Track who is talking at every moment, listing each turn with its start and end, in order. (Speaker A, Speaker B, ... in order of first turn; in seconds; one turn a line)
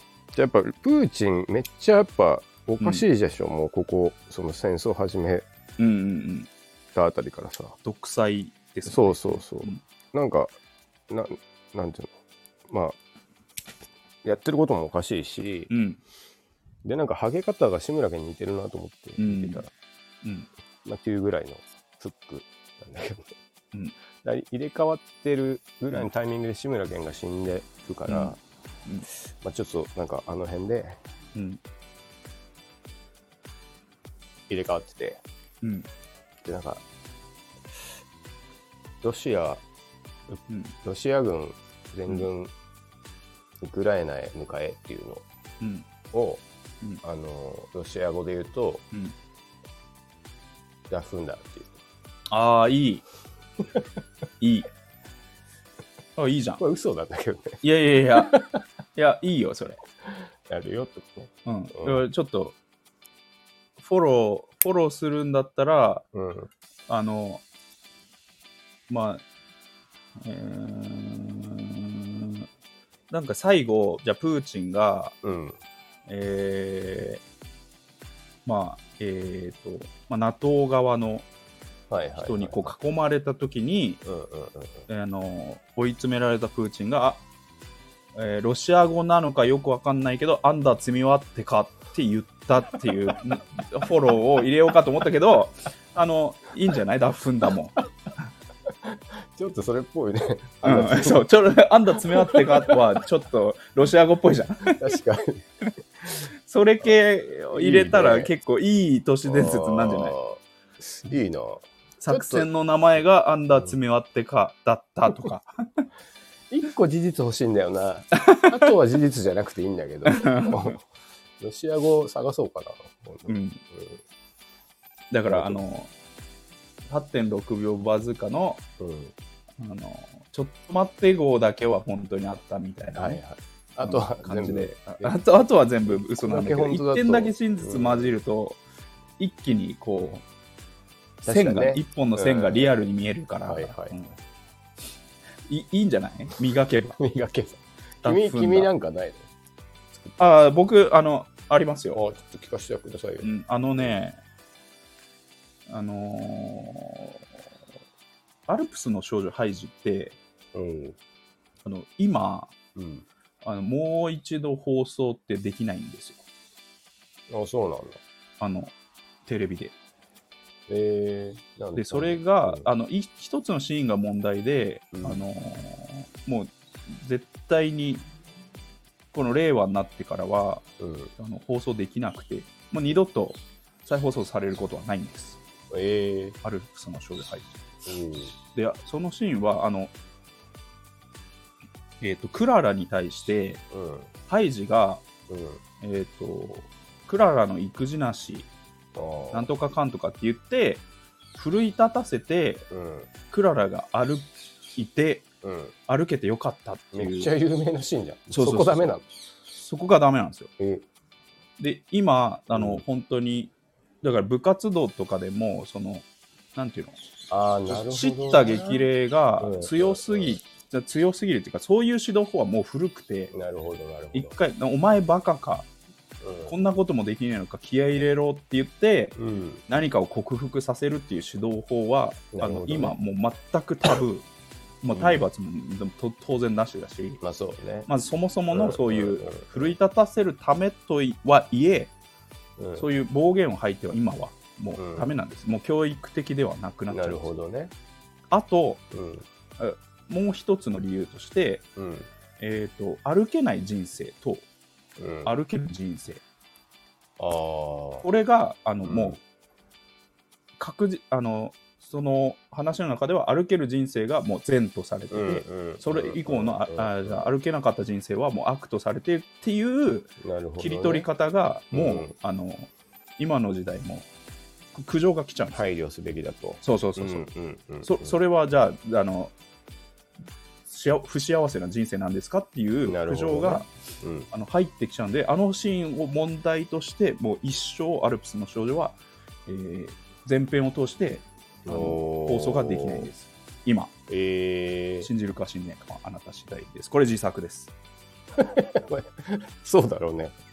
Speaker A: 0.3-5.5
Speaker B: 2.8-3.0
Speaker B: 5.8-6.5
Speaker A: 6.9-7.8
Speaker B: 7.8-9.8
Speaker A: 8.8-10.5
Speaker A: 11.1-12.1
Speaker A: 12.7-12.9
Speaker A: 14.2-15.7
Speaker B: 15.7-16.0
Speaker A: 16.8-19.7
Speaker B: 19.2-19.6
Speaker B: 20.2-20.5
Speaker A: 20.8-23.3
Speaker A: 24.2-28.4
Speaker B: 28.1-28.3
Speaker A: 29.2-31.0
Speaker B: 31.3-31.6
Speaker A: 34.5-35.2
Speaker B: 35.6-35.9
Speaker A: 36.4-36.8
Speaker A: 39.0-39.6
Speaker A: 40.3-42.5
Speaker A: 43.6-45.2
Speaker B: 45.6-45.9
Speaker A: 46.1-46.4
Speaker A: 47.0-48.8
Speaker A: 50.9-51.7
Speaker B: 52.3-53.0
Speaker B: 54.4-54.7
Speaker B: 56.1-56.6
Speaker A: 56.6-57.6
Speaker B: 57.6-58.4
Speaker A: 58.2-58.6
Speaker B: 58.9-59.8
Speaker A: 60.1-62.0
Speaker B: 61.5-62.5
Speaker B: 63.8-66.0
Speaker A: 66.1-66.5
Speaker B: 66.9-67.4
Speaker B: 68.9-69.2
Speaker B: 70.2-72.5
Speaker B: 73.1-75.2
Speaker A: 75.2-75.6
Speaker B: 76.1-77.2
Speaker B: 78.5-81.3
Speaker A: 81.9-82.7
Speaker B: 82.2-84.0
Speaker A: 84.0-84.8
Speaker B: 84.9-87.2
Speaker B: 88.1-97.8
Speaker A: 98.8-101.2
Speaker B: 100.6-104.9
Speaker A: 102.2-102.8
Speaker A: 104.7-105.4
Speaker B: 106.4-110.2
Speaker A: 107.5-108.3
Speaker A: 109.2-112.5
Speaker B: 112.0-115.8
Speaker A: 116.5-120.8
Speaker B: 118.2-118.6
Speaker B: 120.0-120.8
Speaker A: 121.4-124.0
Speaker B: 123.3-123.6
Speaker B: 125.1-125.9
Speaker A: 125.3-125.6
Speaker B: 126.9-128.6
Speaker A: 128.8-129.1
Speaker B: 129.6-133.2
Speaker A: 132.9-135.1
Speaker B: 133.8-138.6
Speaker A: 135.9-138.1
Speaker B: 139.2-140.2
Speaker A: 141.2-142.7
Speaker B: 141.2-144.1
Speaker A: 143.4-144.0
Speaker B: 145.5-147.0
Speaker A: 147.0-149.3
Speaker B: 148.0-148.7
Speaker B: 150.2-152.0
Speaker A: 151.9-153.9
Speaker B: 153.2-154.2
Speaker B: 155.7-157.2
Speaker B: 158.5-160.2
Speaker A: 160.5-161.0
Speaker B: 161.6-162.5
Speaker A: 162.7-163.1
Speaker B: 163.4-166.2
Speaker A: 167.3-168.0
Speaker B: 168.4-168.7
Speaker B: 169.2-169.7
Speaker A: 170.7-172.7
Speaker B: 171.7-178.1
Speaker A: 174.9-175.2
Speaker B: 179.1-180.6
Speaker A: 180.8-181.1
Speaker B: 181.2-185.4
Speaker A: 185.7-186.4
Speaker B: 186.4-187.5
Speaker A: 187.8-188.3
Speaker B: 188.5-189.9
Speaker B: 192.0-193.6
Speaker A: 193.7-194.1
Speaker B: 194.3-195.0
Speaker A: 195.3-195.6
Speaker B: 195.8-198.5
Speaker A: 198.9-199.5
Speaker B: 199.3-200.8
Speaker B: 201.3-202.7
Speaker A: 202.7-203.1
Speaker B: 203.3-205.3
Speaker A: 205.4-205.7
Speaker B: 205.9-207.3
Speaker A: 206.9-209.0
Speaker B: 208.3-208.9
Speaker B: 209.5-210.5
Speaker A: 210.6-210.8
Speaker B: 211.6-217.0
Speaker A: 212.5-212.8
Speaker A: 217.3-218.9
Speaker B: 217.7-223.3
Speaker A: 219.4-220.4
Speaker A: 223.3-224.3
Speaker B: 224.1-225.7
Speaker A: 226.2-226.5
Speaker B: 226.4-229.2
Speaker A: 229.2-229.6
Speaker B: 229.7-234.3
Speaker A: 232.3-232.9
Speaker B: 234.8-237.2
Speaker A: 234.9-235.2
Speaker A: 237.2-237.9
Speaker B: 237.8-241.9
Speaker A: 238.5-239.8
Speaker A: 242.6-242.8
Speaker B: 242.8-247.3
Speaker A: 244.8-245.1
Speaker A: 246.9-247.7
Speaker B: 248.3-248.8
Speaker A: 248.9-249.2
Speaker B: 249.6-251.6
Speaker A: 251.8-252.1
Speaker B: 252.4-254.4
Speaker A: 255.0-255.3
Speaker B: 255.2-256.2
Speaker A: 257.2-258.1
Speaker B: 258.0-259.2
Speaker A: 258.8-259.2
Speaker B: 260.6-274.1
Speaker A: 265.1-267.3
Speaker A: 270.2-271.1
Speaker A: 271.7-272.1
Speaker B: 274.7-275.6
Speaker A: 275.5-278.2
Speaker B: 276.6-277.3
Speaker B: 277.8-279.3
Speaker B: 280.6-283.7
Speaker A: 282.9-284.3
Speaker B: 284.3-293.9
Speaker A: 291.6-293.1
Speaker A: 294.1-295.1
Speaker B: 295.0-297.7
Speaker A: 298.4-300.4